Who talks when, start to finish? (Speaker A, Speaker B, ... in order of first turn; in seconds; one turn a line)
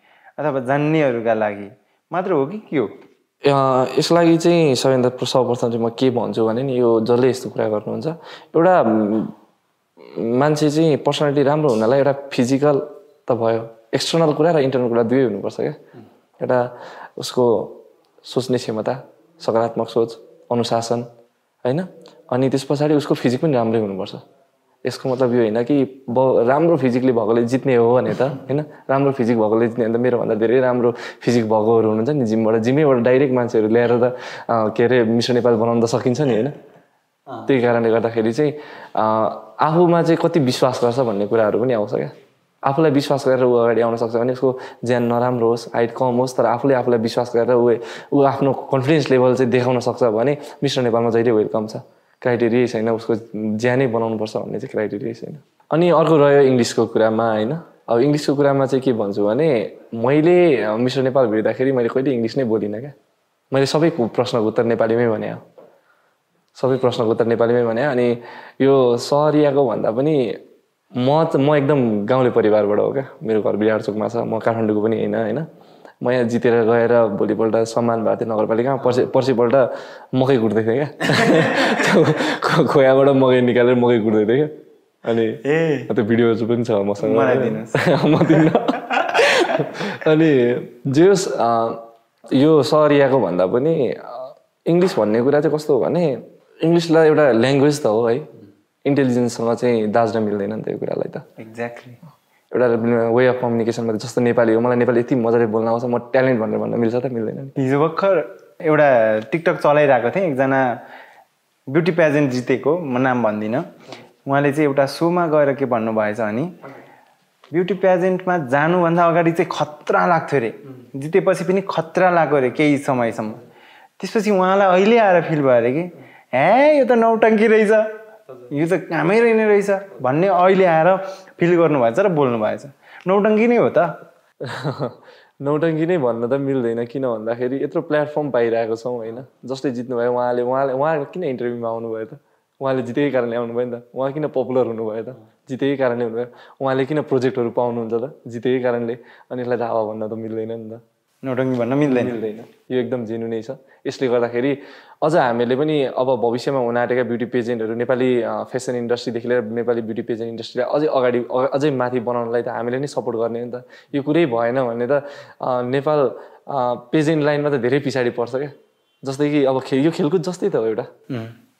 Speaker A: 0.4-2.9
Speaker B: 3.4-9.3
Speaker B: 10.0-15.8
Speaker B: 16.4-21.1
Speaker B: 21.6-24.2
Speaker B: 24.8-36.6
Speaker B: 37.5-42.1
Speaker B: 42.6-63.0
Speaker B: 63.5-65.4
Speaker B: 66.5-70.4
Speaker B: 71.0-75.5
Speaker B: 76.0-98.3
Speaker A: 85.4-85.9
Speaker A: 87.0-87.8
Speaker B: 98.8-101.2
Speaker A: 101.4-102.0
Speaker B: 102.5-107.5
Speaker A: 107.6-110.8
Speaker A: 111.7-113.7
Speaker A: 114.3-116.6
Speaker A: 117.5-123.4
Speaker A: 124.0-127.9
Speaker A: 128.5-134.0
Speaker B: 134.4-150.8
Speaker A: 151.2-152.2
Speaker B: 151.9-170.9